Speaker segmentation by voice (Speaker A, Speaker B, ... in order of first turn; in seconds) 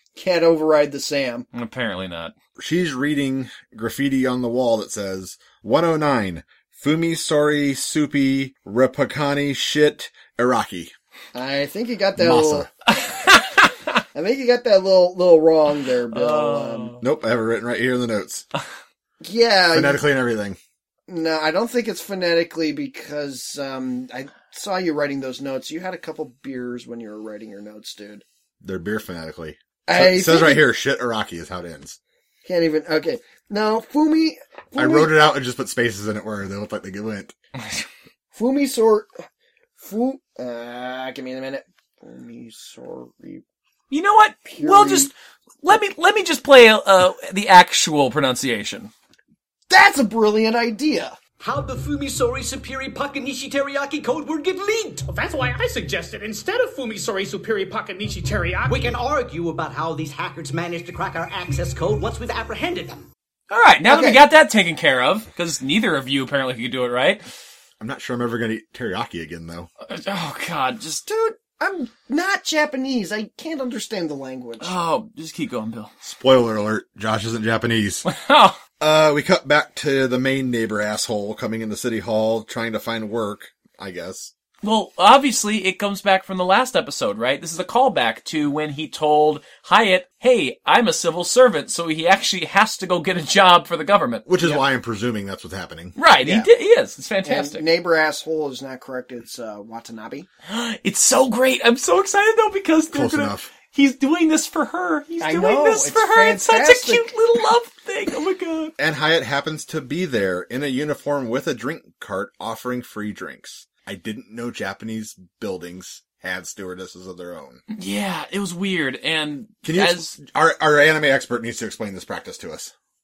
Speaker A: 0.2-1.5, 11.3-12.7, 14.1-17.0, 19.2-20.0, 21.1-28.2, 29.9-30.6, 32.5-35.1, 38.4-39.1, 39.8-43.4, 44.5-45.1, 49.7-51.2, 63.9-64.2, 71.1-74.8, 97.2-100.3, 105.2-107.1
Speaker B: 1.5-2.3, 12.9-14.0, 16.1-17.0, 43.9-45.1, 45.6-48.9, 63.5-67.2, 69.8-71.0, 74.6-75.9, 78.1-78.6, 84.6-94.6, 96.0-97.6, 100.5-108.7, 117.7-120.1
Speaker C: 2.6-10.9, 12.2-12.7, 17.0-18.5, 19.7-20.6, 28.6-32.0, 34.8-37.4, 67.8-69.7, 76.0-78.1, 78.8-84.3, 94.3-96.0, 102.9-103.5, 108.8-117.6, 119.6-122.7
Speaker D: 51.4-55.1, 58.7-63.1
Speaker E: 55.1-59.0